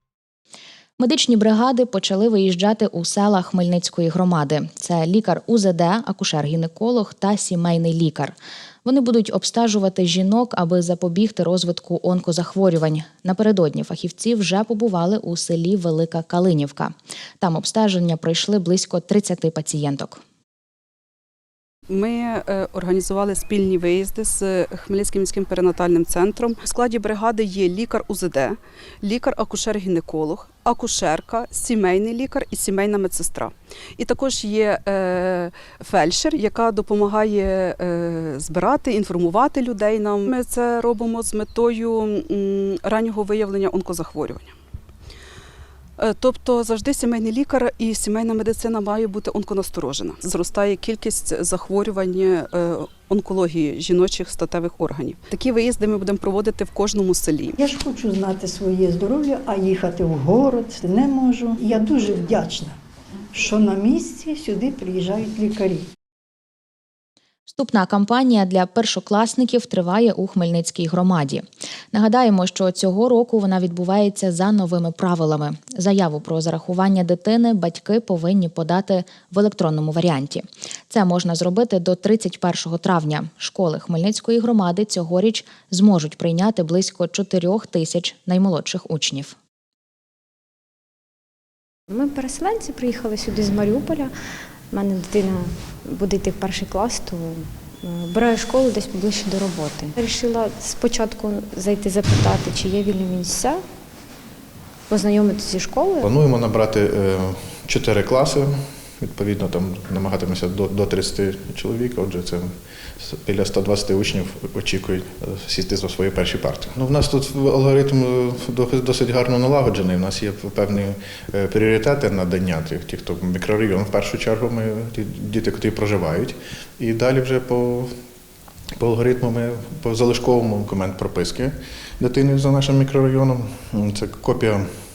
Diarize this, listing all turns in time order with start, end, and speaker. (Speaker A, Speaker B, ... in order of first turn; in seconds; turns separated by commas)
Speaker A: 1.0-20.2, Speaker B: 21.9-44.5, Speaker B: 46.0-57.5, Speaker C: 57.6-62.8, Speaker C: 63.3-65.8, Speaker A: 67.5-89.3, Speaker D: 91.9-94.1, Speaker D: 94.7-103.6, Speaker D: 104.9-106.0, Speaker E: 106.0-127.9, Speaker E: 128.8-134.7